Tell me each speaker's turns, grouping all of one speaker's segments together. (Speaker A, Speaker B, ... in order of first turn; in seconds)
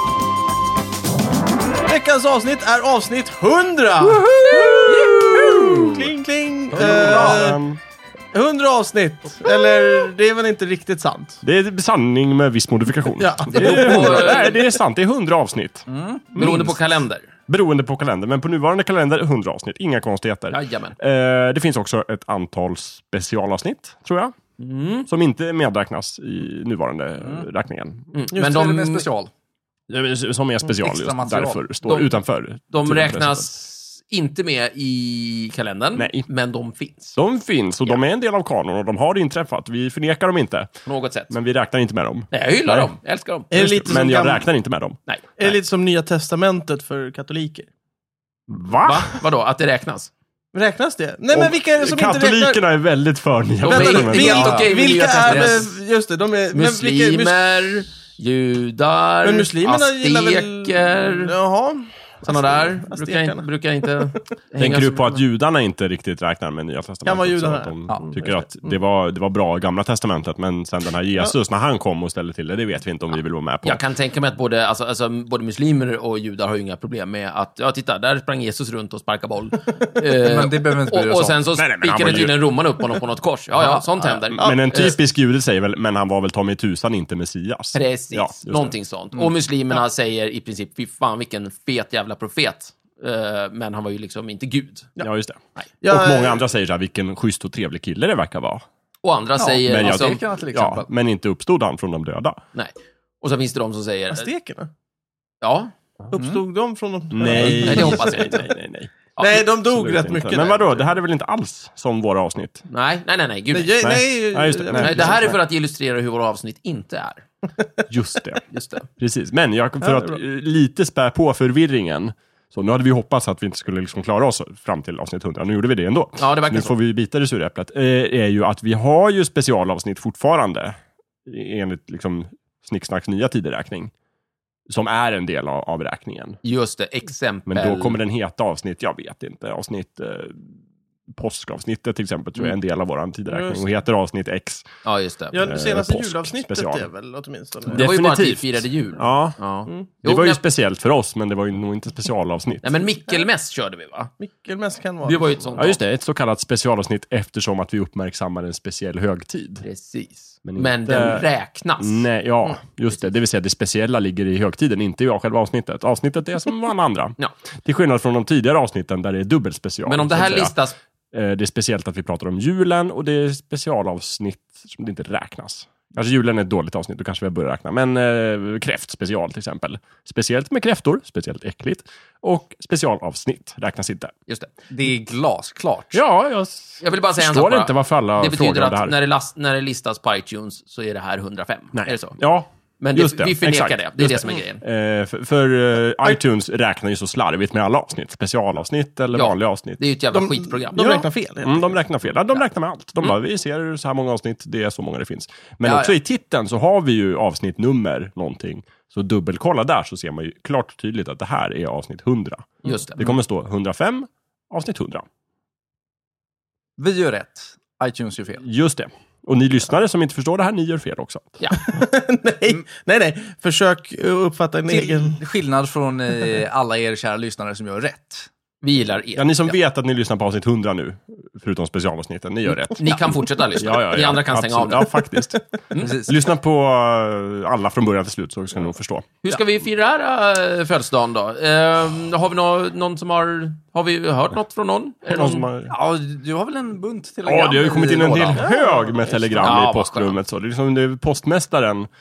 Speaker A: 1.8-7.6, 8.3-11.4, 13.2-14.7, 43.5-44.4, 45.4-47.7, 50.5-52.6, 53.7-57.6, 59.2-63.5, 67.0-68.7, 95.8-96.4, 104.1-104.7, 106.1-108.4, 109.2-110.9, 113.5-115.3, 119.8-120.2, 143.3-143.6, 145.3-147.8, 154.2-155.6, 200.1-201.8, 221.6-225.2, 248.3-249.2
Speaker B: 4.0-6.0, 6.7-7.5, 15.9-16.3, 28.3-29.3, 30.8-31.6, 54.1-55.6, 80.2-81.4, 99.4-100.9, 106.1-106.4, 184.7-186.0, 216.8-218.4, 224.7-228.3, 235.7-236.1, 245.7-248.5
Speaker C: 6.7-7.8, 11.4-16.8, 17.5-24.3, 25.1-28.0, 29.9-33.5, 36.0-36.2, 37.1-40.7, 41.3-42.9, 43.5-45.0, 48.5-49.1, 51.3-54.5, 64.6-73.8, 81.5-82.3, 83.7-88.7, 95.0-98.6, 99.6-102.4, 107.1-112.6, 113.8-115.4, 117.9-118.4, 119.0-133.9, 134.7-136.4, 137.5-140.5, 141.1-144.7, 145.4-146.9, 147.7-149.4, 150.0-152.8, 155.6-159.6, 160.4-161.2, 161.8-170.5, 171.1-184.1, 185.9-188.9, 191.7-199.8, 201.4-215.0, 218.4-221.4, 229.2-232.9, 233.6-235.4, 236.1-239.1, 245.1-245.7, 247.2-251.9
Speaker D: 13.5-14.6, 16.3-17.3, 20.5-20.9, 24.6-25.1, 28.1-29.0, 31.9-32.1, 32.7-37.2, 40.9-41.3, 42.3-44.0, 45.1-45.5, 48.8-50.1, 53.6-55.7, 56.5-61.3, 62.2-65.2, 73.6-85.0, 87.7-94.9, 99.0-100.2, 102.5-104.3, 105.4-105.7, 107.3-108.4, 112.7-113.9, 114.7-117.2, 118.5-118.8, 126.2-126.7, 136.4-138.0, 144.8-145.5, 147.7-150.4, 152.6-154.1, 155.0-155.8, 159.6-162.0, 169.8-170.8, 186.8-192.2, 192.8-194.6, 199.1-201.1, 212.6-213.1, 228.6-229.5, 232.8-235.0, 239.2-245.5, 249.4-250.2